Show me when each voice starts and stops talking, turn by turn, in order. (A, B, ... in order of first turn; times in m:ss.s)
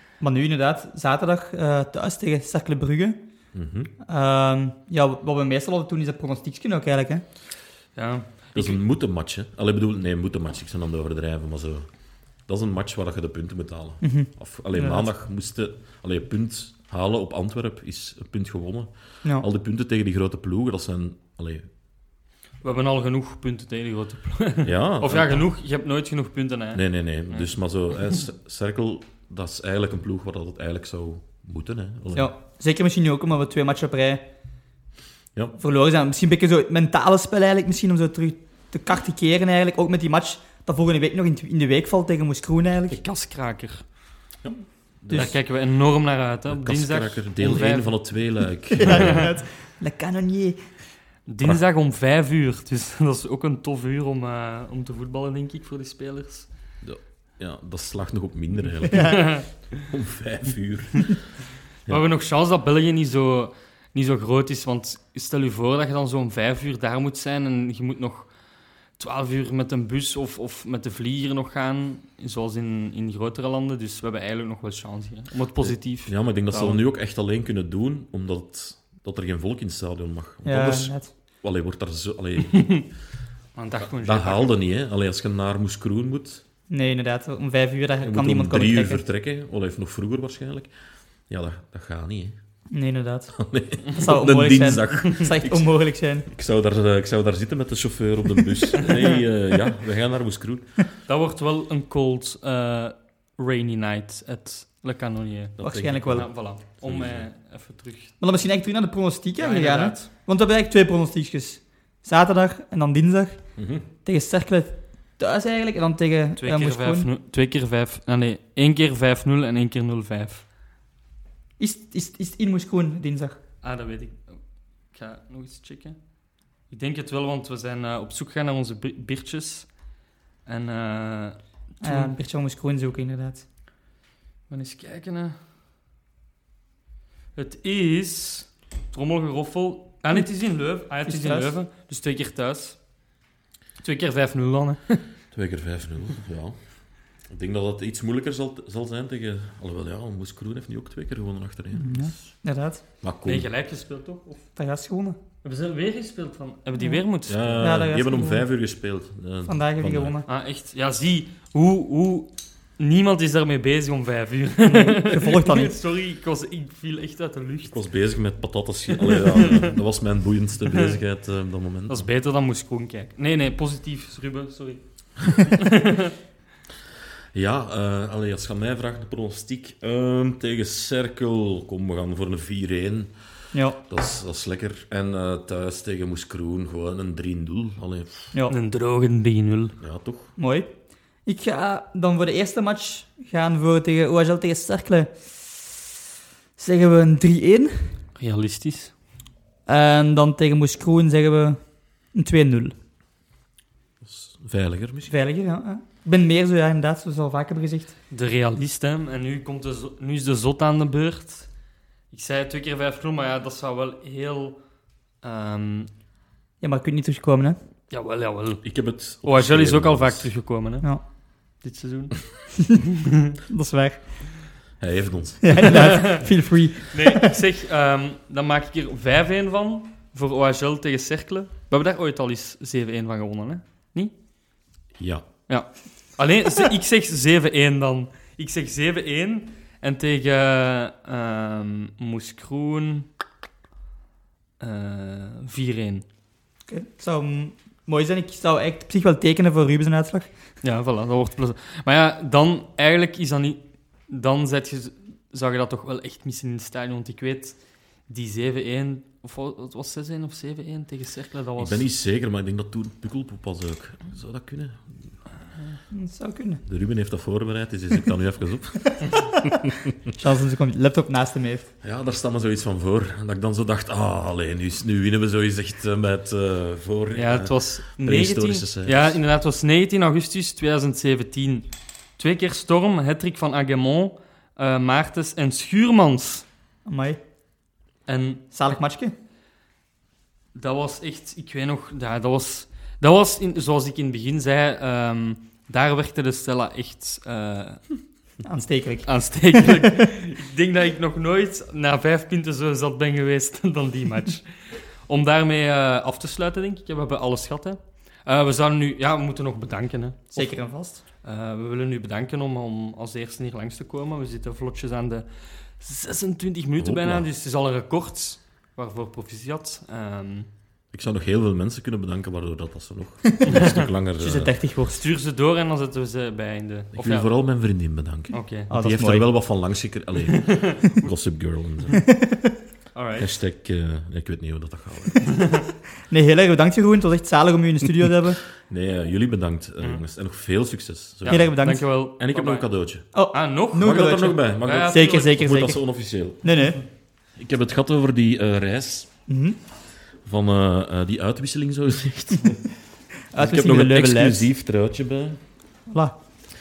0:00.2-0:03.2 A
0:03.5-0:03.9 B
0:04.1-0:07.2 A
0:08.0-0:08.8 C
0:08.6-0:11.9 B
0:12.5-0:21.7 B
0:14.0-0:15.1 A
0:22.6-0:27.5 C
0:24.6-0:25.5 B
0:26.7-0:32.3 B
0:32.1-0:34.3 A
0:35.6-0:43.0 A
0:42.9-0:43.9 C
0:44.4-0:45.4 B
0:45.1-0:48.0 C
0:46.5-0:49.3 B
0:48.8-0:50.6 A
0:51.3-0:56.5 C
0:56.8-1:01.3 B
0:58.9-0:59.4 A
0:58.9-0:59.8 C
1:01.9-1:08.3 C
1:09.0-1:16.8 C
1:15.6-1:22.8 B
1:20.4-1:21.1 A
1:22.5-1:22.9 C
1:23.6-1:24.5 C
1:23.8-1:26.4 B
1:26.7-1:29.0 A
1:28.0-1:30.7 B
1:31.3-1:32.4 B
1:32.7-1:36.3 A
1:33.4-1:35.7 B
1:36.3-1:40.8 B
1:41.1-1:48.2 C
1:45.6-1:47.3 B
1:45.6-1:46.3 A
1:48.2-1:53.5 A
1:49.4-1:50.1 C
1:53.6-1:53.9 B
1:54.0-1:57.1 A
1:56.4-2:00.4 C
2:01.6-2:03.4 A
2:03.6-2:06.0 C
2:06.7-2:09.7 C
2:10.5-2:12.1 C
2:11.8-2:13.4 A
2:14.5-2:15.4 C
2:17.4-2:22.8 C
2:21.0-2:21.6 A
2:23.8-2:25.0 C
2:25.3-2:26.6 B
2:27.3-2:32.1 B
2:31.7-2:32.8 A
2:33.0-2:33.5 B
2:33.2-2:34.5 C
2:34.6-2:35.2 A
2:35.4-2:37.7 C
2:37.3-2:40.2 B
2:37.6-2:38.4 A
2:39.5-2:40.3 A
2:40.3-2:47.8 C
2:44.7-2:45.8 A
2:47.7-2:52.1 B
2:49.1-2:49.7 C
2:51.9-2:56.1 C
2:57.3-3:03.1 B
3:03.8-3:08.3 B
3:08.5-3:09.8 C
3:09.8-3:10.3 B
3:10.4-3:10.7 A
3:11.3-3:15.7 A
3:16.6-3:18.0 A
3:18.2-3:18.9 C
3:19.7-3:22.8 A
3:24.0-3:25.1 B
3:25.1-3:28.0 A
3:28.1-3:31.5 C
3:32.1-3:34.6 C
3:35.2-3:35.9 C
3:36.6-3:37.6 A
3:37.9-3:38.6 C
3:38.6-3:40.4 B
3:39.2-3:41.0 C
3:41.6-3:42.8 C
3:43.5-3:44.2 A
3:44.8-3:45.9 B
3:45.4-3:47.3 A
3:45.6-3:46.3 C
3:46.9-3:54.1 C
3:55.0-3:55.3 B
3:55.5-4:03.1 C
4:04.6-4:06.0 C
4:06.7-4:10.3 A
4:10.6-4:21.9 C
4:21.6-4:24.9 B
4:25.9-4:26.6 A
4:26.7-4:29.0 B
4:29.0-4:31.7 A
4:31.8-4:39.2 B
4:37.2-4:41.7 C
4:42.2-4:46.5 C
4:46.8-4:47.2 A
4:48.1-4:48.4 C
4:48.5-4:49.1 A
4:50.6-4:57.9 C
4:58.4-4:59.7 A
4:59.0-5:10.6 C
5:10.4-5:11.0 A
5:11.2-5:15.3 C
5:15.8-5:20.5 C
5:16.8-5:17.3 B
5:20.9-5:24.5 B
5:23.3-5:25.0 A
5:24.9-5:27.3 C
5:27.0-5:32.0 B
5:28.3-5:28.7 C
5:28.7-5:29.3 A
5:30.3-5:30.8 C
5:32.0-5:32.5 A
5:32.9-5:33.3 C
5:33.2-5:35.4 B
5:35.3-5:35.6 C
5:36.1-5:38.4 A
5:38.7-5:41.5 B
5:41.2-5:42.7 C
5:41.3-5:41.8 A
5:42.2-5:43.1 B
5:43.1-5:45.8 A
5:43.3-5:44.0 C
5:43.8-5:46.5 B
5:44.6-5:45.4 C
5:46.4-5:46.8 A
5:47.4-5:49.1 B
5:49.3-5:49.6 A
5:50.2-5:52.7 B
5:53.3-5:54.5 A
5:53.4-5:55.4 B
5:55.9-5:56.2 A